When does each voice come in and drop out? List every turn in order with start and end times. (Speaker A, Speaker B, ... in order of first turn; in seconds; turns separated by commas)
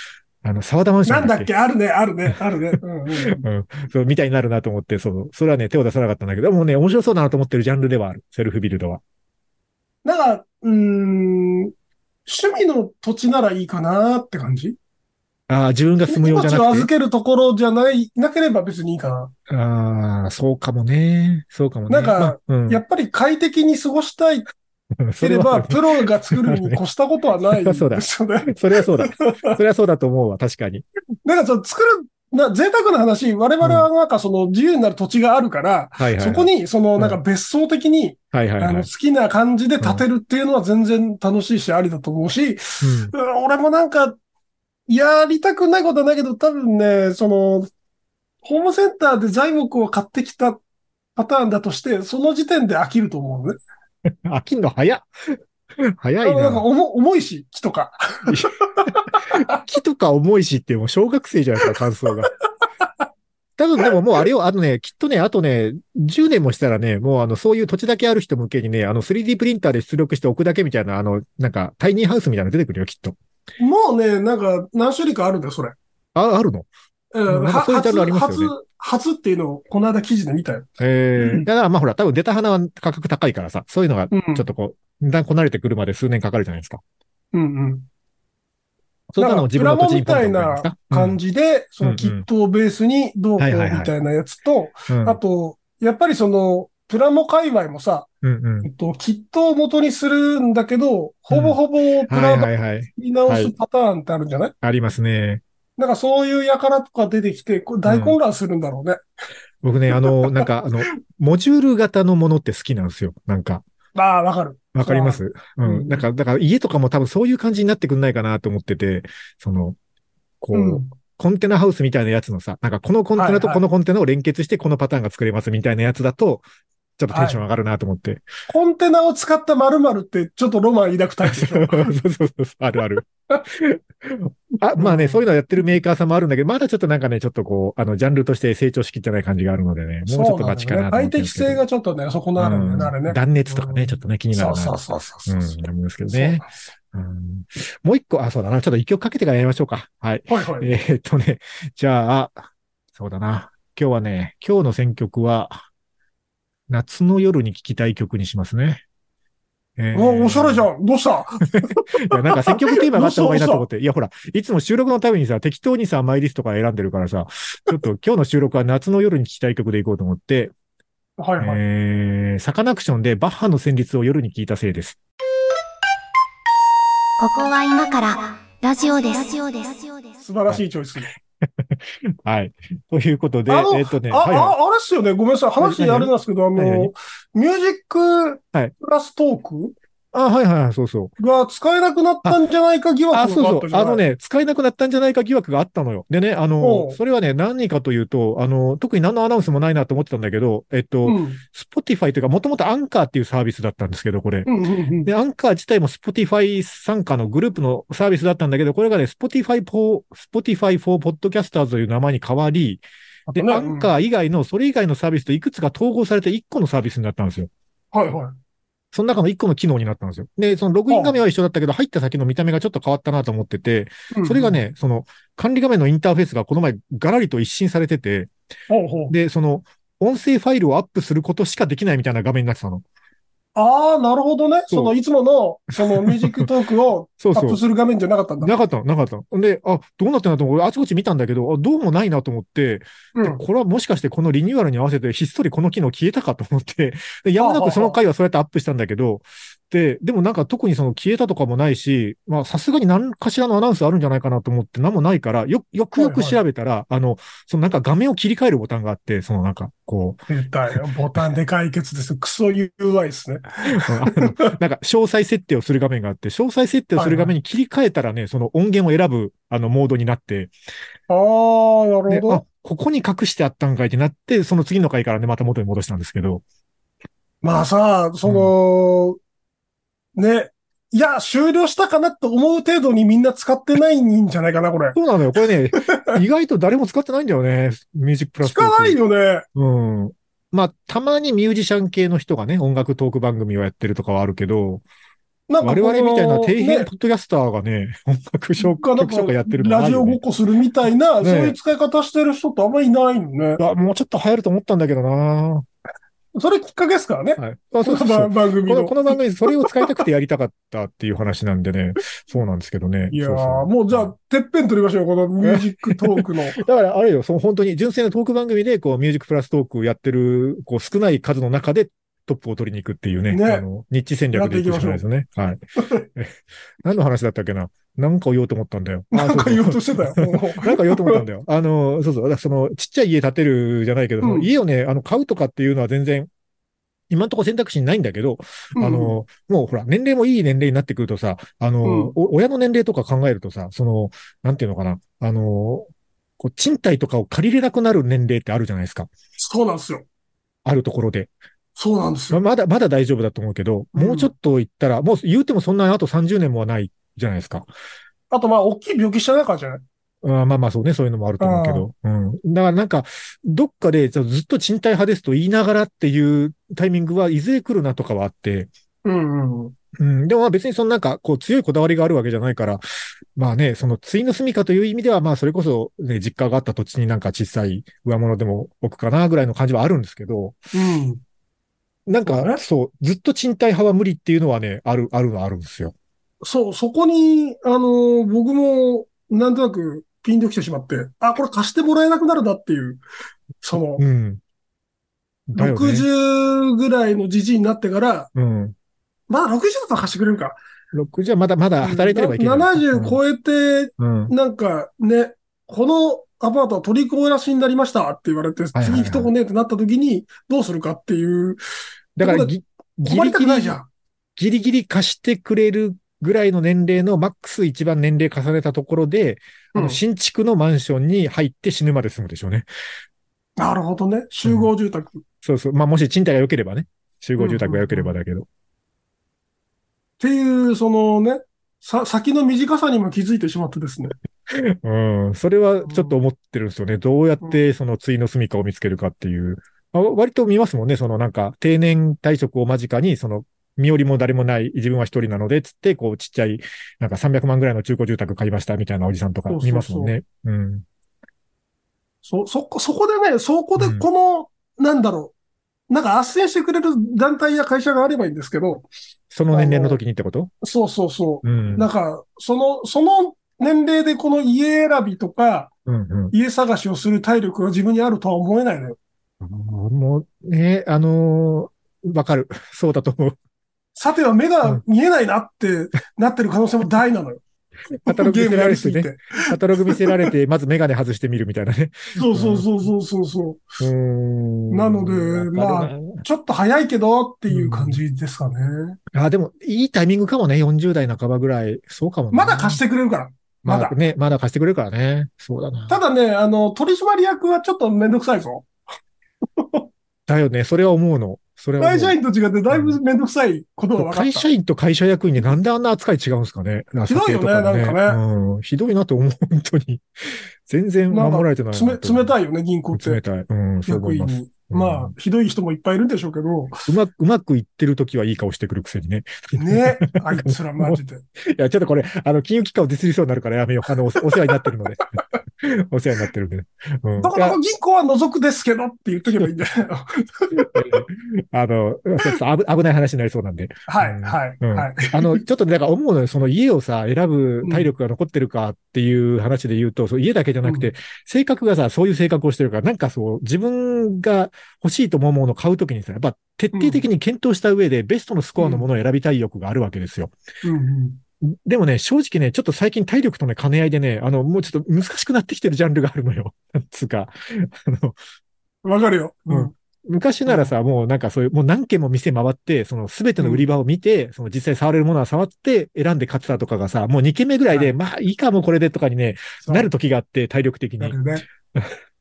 Speaker A: 0.4-1.5, Speaker B: 1.1-3.4, Speaker A: 3.2-9.0, Speaker B: 10.1-11.7, Speaker B: 12.3-14.8, Speaker A: 15.5-16.9, Speaker B: 16.1-19.3, Speaker A: 19.5-22.8, Speaker B: 21.9-24.5, Speaker A: 25.0-26.8, Speaker B: 25.2-29.6, Speaker A: 27.5-30.9, Speaker B: 31.2-44.2, Speaker A: 33.6-33.9, Speaker A: 36.0-37.2, Speaker A: 38.3-38.9, Speaker A: 42.8-43.1, Speaker B: 44.9-47.7, Speaker B: 48.4-50.6, Speaker B: 51.2-53.6, Speaker A: 54.2-56.6, Speaker B: 56.2-59.6, Speaker A: 59.3-62.3, Speaker A: 63.6-73.2, Speaker B: 73.6-75.8, Speaker A: 76.2-76.7, Speaker B: 77.1-81.5, Speaker A: 77.3-78.5, Speaker A: 80.8-86.8, Speaker B: 84.1-84.5, Speaker B: 87.3-87.9, Speaker A: 89.1-91.2, Speaker B: 89.2-98.1, Speaker A: 91.8-92.3, Speaker A: 93.4-93.9, Speaker A: 94.9-95.2, Speaker A: 98.2-98.7, Speaker B: 98.6-104.5, Speaker A: 101.3-103.5, Speaker A: 104.6-105.4, Speaker B: 105.8-109.0, Speaker A: 107.8-108.2, Speaker A: 109.6-113.6, Speaker B: 109.9-110.5, Speaker B: 114.0-116.0, Speaker A: 114.7-119.8, Speaker A: 120.4-126.5, Speaker B: 120.5-120.9, Speaker B: 123.2-123.6, Speaker A: 127.0-128.2, Speaker B: 127.1-127.4, Speaker B: 128.5-131.9, Speaker A: 131.2-141.6, Speaker B: 134.8-135.2, Speaker B: 140.1-146.5, Speaker A: 142.4-155.6, Speaker B: 150.3-150.7, Speaker A: 156.7-158.8, Speaker A: 159.8-160.7, Speaker B: 159.9-163.7, Speaker A: 162.1-170.5, Speaker B: 171.2-171.6, Speaker A: 171.4-175.0, Speaker C: 177.2-180.2, Speaker B: 180.2-181.1, Speaker A: 181.4-184.6, Speaker B: 183.5-189.8, Speaker A: 185.6-186.9, Speaker A: 190.1-191.2, Speaker B: 191.2-194.0, Speaker A: 193.1-204.5, Speaker B: 196.6-197.0, Speaker B: 201.1-201.4, Speaker B: 204.5-205.1, Speaker A: 205.1-212.8, Speaker B: 213.3-213.9, Speaker A: 213.3-217.5, Speaker B: 217.9-218.4, Speaker A: 218.9-228.3, Speaker B: 220.9-221.2, Speaker B: 224.1-224.6, Speaker B: 228.7-229.1, Speaker A: 229.1-232.8, Speaker B: 233.6-238.5, Speaker A: 235.8-236.5, Speaker A: 237.2-237.6, Speaker A: 238.4-260.7, Speaker B: 243.2-243.4, Speaker B: 247.4-248.0, Speaker B: 256.0-256.4, Speaker B: 260.3-264.5, Speaker A: 263.7-270.5, Speaker B: 267.0-267.3, Speaker B: 271.1-272.4, Speaker A: 272.1-276.4, Speaker B: 277.4-279.2, Speaker A: 278.2-278.5, Speaker B: 280.2-285.0, Speaker A: 284.9-289.0, Speaker B: 285.8-286.2, Speaker B: 288.4-289.5, Speaker A: 289.6-294.8, Speaker B: 295.5-296.9, Speaker A: 295.6-300.2, Speaker B: 298.6-303.6, Speaker A: 301.2-301.6, Speaker A: 303.6-305.7, Speaker B: 306.4-309.9, Speaker A: 307.4-314.1, Speaker B: 313.1-316.6, Speaker A: 315.4-325.6, Speaker B: 323.3-323.6, Speaker B: 324.3-325.0, Speaker B: 325.8-326.1, Speaker A: 326.1-336.3, Speaker B: 329.1-331.2, Speaker B: 334.2-334.5, Speaker A: 337.1-345.9, Speaker B: 338.8-339.2, Speaker B: 341.8-342.1, Speaker A: 346.4-349.1, Speaker B: 349.4-350.1, Speaker A: 350.6-351.3, Speaker B: 351.8-352.4, Speaker A: 352.3-357.7, Speaker B: 353.9-354.3, Speaker B: 358.3-359.8, Speaker A: 360.2-368.7, Speaker B: 361.4-361.9, Speaker B: 369.0-369.8, Speaker A: 370.0-372.8, Speaker A: 373.4-380.6, Speaker B: 380.7-381.2, Speaker A: 382.1-385.9, Speaker B: 382.2-382.6, Speaker B: 386.4-393.0, Speaker B: 393.6-394.0, Speaker A: 394.0-394.4, Speaker A: 395.5-396.1, Speaker B: 395.6-398.3, Speaker A: 398.4-398.8, Speaker B: 399.3-400.6, Speaker A: 400.9-403.2, Speaker B: 401.8-411.6, Speaker A: 404.0-404.3, Speaker A: 408.7-409.3, Speaker A: 412.2-413.8, Speaker B: 412.2-413.9, Speaker A: 414.4-422.7, Speaker B: 419.7-420.0, Speaker B: 423.6-425.2, Speaker A: 424.4-424.7, Speaker A: 425.4-428.5, Speaker B: 427.4-428.1, Speaker B: 430.2-434.1, Speaker A: 434.5-450.9, Speaker B: 435.9-436.1, Speaker B: 449.5-450.2, Speaker B: 452.2-455.3, Speaker A: 453.8-454.1, Speaker B: 455.9-458.9, Speaker A: 459.3-460.5, Speaker B: 459.5-460.0, Speaker B: 460.6-465.7, Speaker A: 461.4-461.9, Speaker A: 465.9-466.3, Speaker B: 466.3-469.0, Speaker A: 469.4-473.4, Speaker B: 474.0-477.4, Speaker B: 478.1-480.3, Speaker A: 478.1-482.7, Speaker B: 482.2-483.6, Speaker A: 483.8-486.2, Speaker B: 484.7-489.0, Speaker A: 487.5-488.0, Speaker A: 489.1-492.8, Speaker B: 492.3-494.0, Speaker A: 493.6-496.0, Speaker B: 495.9-498.7, Speaker B: 499.6-499.8, Speaker A: 500.3-502.2, Speaker B: 501.8-504.5, Speaker A: 502.7-503.0, Speaker A: 504.0-512.3, Speaker B: 507.1-508.2, Speaker B: 511.1-513.2, Speaker A: 512.9-515.1, Speaker B: 513.9-516.8, Speaker A: 516.9-525.0, Speaker B: 519.6-521.2, Speaker A: 525.6-527.6, Speaker B: 527.2-530.7, Speaker A: 530.6-550.3, Speaker B: 533.9-535.4, Speaker B: 537.6-537.9, Speaker B: 540.6-540.9, Speaker B: 546.7-547.1, Speaker B: 548.6-548.9, Speaker B: 550.6-551.2, Speaker A: 551.4-558.2, Speaker B: 558.8-559.7, Speaker A: 559.5-571.9, Speaker B: 560.5-560.7, Speaker B: 563.4-563.6, Speaker B: 569.6-569.9, Speaker B: 571.0-571.5